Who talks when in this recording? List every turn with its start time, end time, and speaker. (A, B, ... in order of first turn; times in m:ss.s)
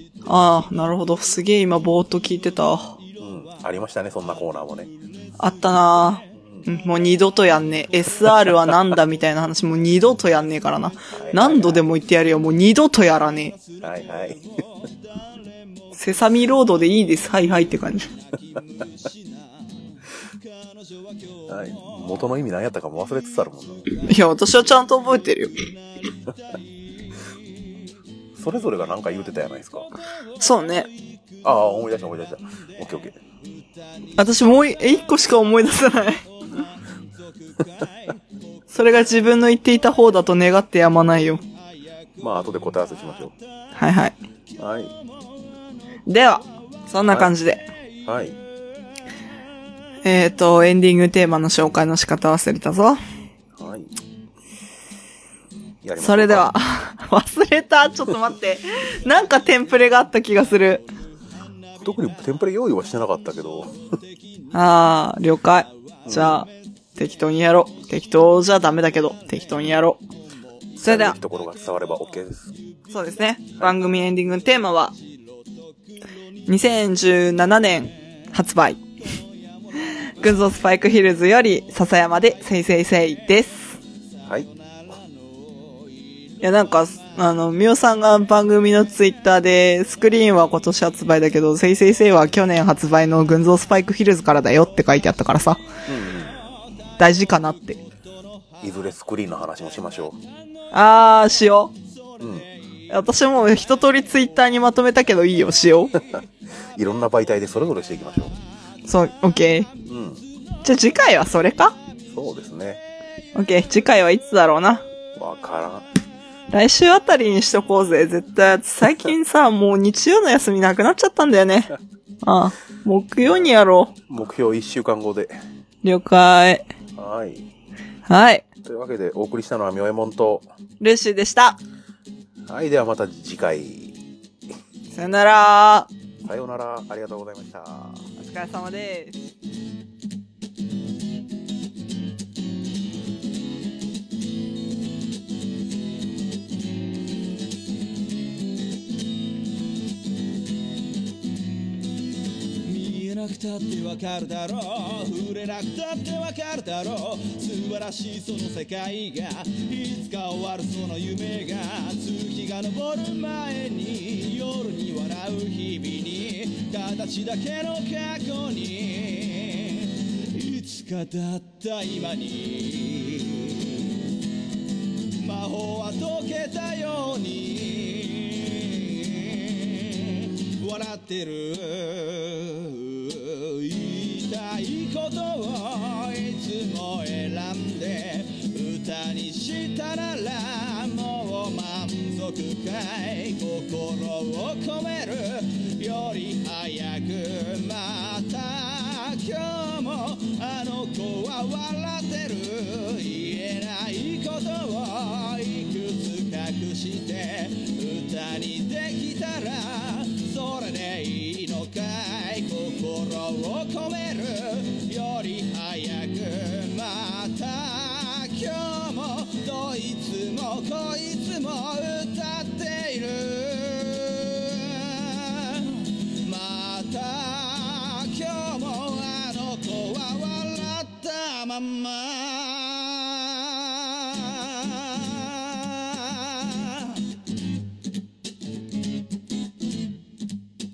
0:00.3-0:03.0 A
0:03.2-0:04.9 B
0:04.9-0:06.2 C
0:05.4-0:13.5 A
0:06.3-0:06.7 B
0:11.1-0:11.8 B
0:13.5-0:16.0 C
0:13.8-0:14.4 B
0:16.0-0:18.1 A
0:18.1-0:22.1 C
0:21.5-0:23.9 B
0:24.0-0:25.5 A
0:26.0-0:26.6 C
0:28.4-0:29.9 B
0:30.4-0:30.9 A
0:30.9-0:31.7 C
0:31.4-0:33.2 B
0:33.5-0:34.9 C
0:34.2-0:36.2 A
0:36.5-0:38.7 C
0:38.7-0:41.4 A
0:41.5-0:42.1 C
0:42.2-0:43.3 B
0:43.8-0:44.2 A
0:44.6-0:44.9 B
0:46.1-0:47.6 A
0:48.1-0:48.4 B
0:50.0-0:53.0 A
0:53.6-0:53.9 B
0:55.8-0:56.6 B
0:56.0-1:00.9 A
1:01.8-1:03.8 B
1:04.0-1:04.5 C
1:04.5-1:10.0 A
1:06.1-1:06.4 B
1:10.8-1:12.5 B
1:10.8-1:11.2 A
1:12.9-1:14.9 A
1:15.0-1:15.9 C
1:16.5-1:18.8 A
1:20.2-1:23.8 A
1:24.4-1:26.3 C
1:26.4-1:35.6 A
1:35.9-1:36.4 B
1:37.0-1:37.8 A
1:38.6-1:40.2 B
1:40.7-1:41.7 A
1:42.2-1:42.5 C
1:42.2-1:42.5 B
1:42.9-1:45.9 A
1:46.0-1:48.4 B
1:48.9-1:49.7 A
1:49.9-1:50.2 B
1:50.6-1:51.8 A
1:52.1-1:52.8 B
1:53.4-1:54.8 A
1:55.2-1:55.8 B
1:56.5-2:03.9 A
2:03.2-2:03.5 B
2:04.1-2:05.3 B
2:05.8-2:06.6 A
2:07.0-2:07.4 B
2:08.1-2:08.5 A
2:08.6-2:10.5 B
2:10.8-2:11.6 A
2:12.5-2:13.9 B
2:14.9-2:15.9 A
2:16.2-2:18.0 B
2:18.2-2:19.2 A
2:32.6-2:53.9 C
2:55.2-3:57.0 C